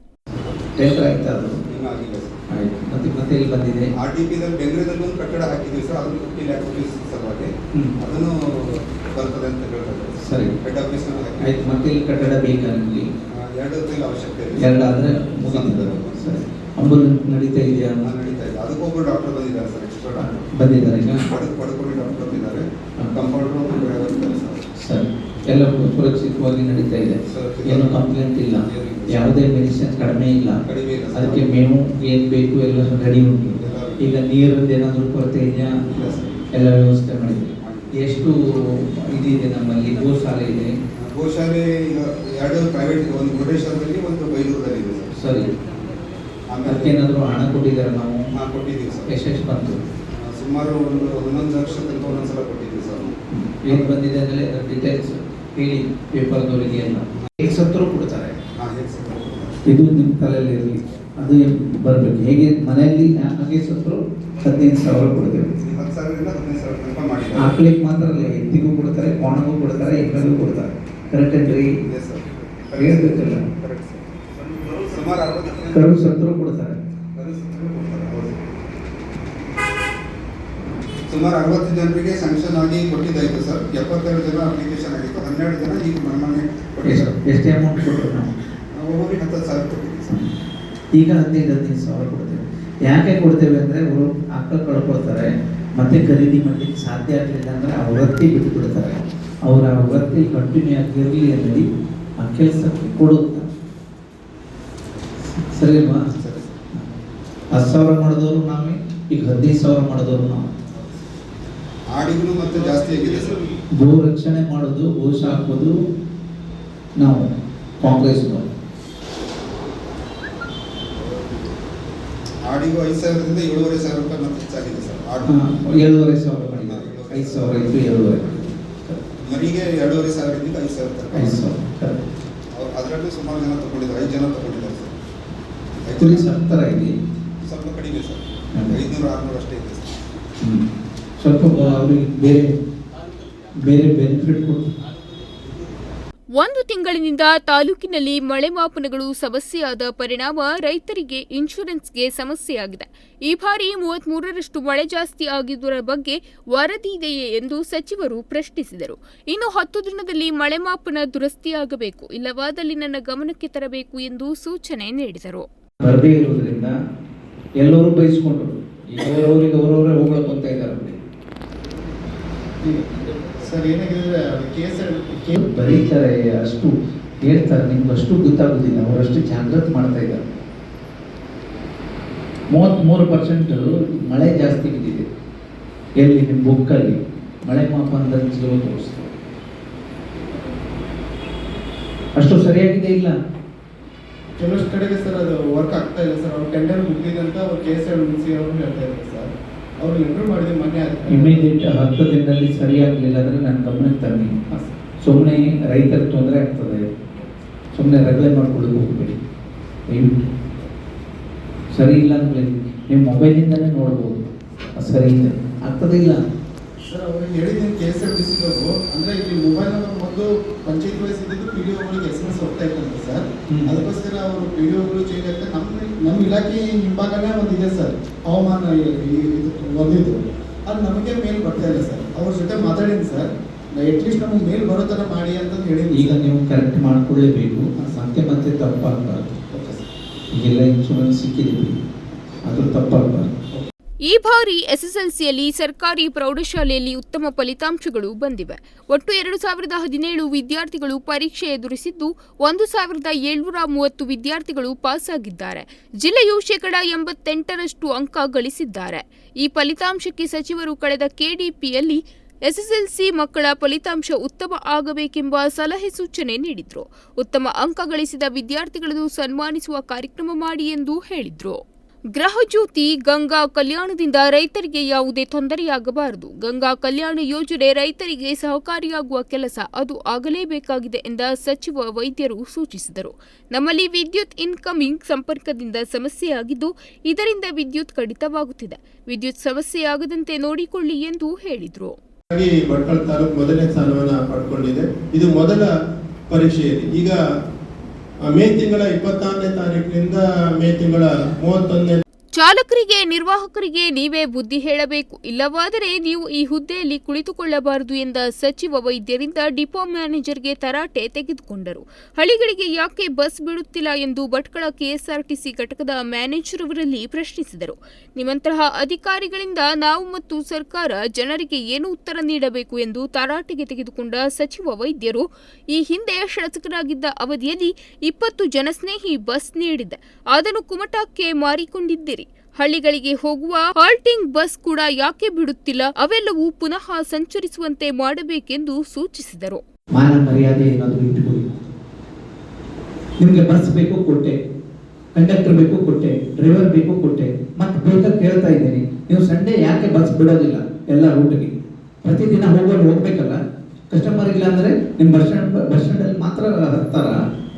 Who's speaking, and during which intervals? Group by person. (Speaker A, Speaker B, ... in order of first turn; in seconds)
Speaker A: 0.8-1.6, 2.5-3.9, 10.2-10.5, 11.4-13.1, 14.6-18.0, 20.5-21.3, 24.8-30.6, 31.1-35.8, 36.5-38.3, 39.0-40.7, 45.1-45.5, 46.6-48.2, 49.1-49.8, 53.3-58.4, 59.7-65.5, 67.3-71.7, 72.8-73.4, 75.7-76.8, 86.8-88.3, 90.9-101.6, 102.2-103.5, 105.5-106.0, 107.5-110.5, 113.8-115.7, 117.0-117.3, 117.8-118.4, 125.2-129.0, 131.1-132.0, 136.0-136.9, 141.2-142.5, 143.6-144.7, 165.8-166.7, 167.6-171.0, 175.3-180.3, 182.5-185.0, 186.0-189.1, 192.2-193.1, 201.1-204.3, 205.0-206.8, 207.7-209.2, 209.9-210.2, 211.7-214.2, 214.8-216.2, 235.9-239.3, 240.3-241.8, 242.4-243.3, 339.9-341.5, 343.2-344.4, 345.1-351.5, 352.0-353.4, 353.9-357.1
Speaker B: 1.7-2.4, 4.0-11.8, 13.3-16.4, 18.0-20.5, 21.1-24.7, 27.2-29.3, 30.6-31.6, 33.5-34.1, 35.8-36.4, 37.6-38.0, 41.0-45.2, 46.5-47.0, 48.3-49.1, 50.1-53.1, 53.7-53.9, 58.5-59.6, 65.5-67.6, 69.6-70.7, 71.8-75.8, 77.2-78.4, 81.1-87.1, 88.7-90.3, 106.0-106.6, 110.7-111.0, 111.9-113.6, 120.9-121.5, 122.4-125.5, 126.6-128.5, 129.2-131.5, 132.5-135.0, 135.8-136.3, 137.4-140.0
Speaker C: 146.3-165.4, 244.1-271.6, 272.1-291.9, 302.4-339.6
Speaker D: 173.4-175.4, 194.4-199.3, 199.8-201.5, 204.5-204.7, 216.9-236.2, 237.8-238.0, 239.5-239.8, 292.3-295.5, 296.4-297.1
Speaker E: 292.9-294.1, 295.2-295.7, 296.3-297.1, 298.3-302.0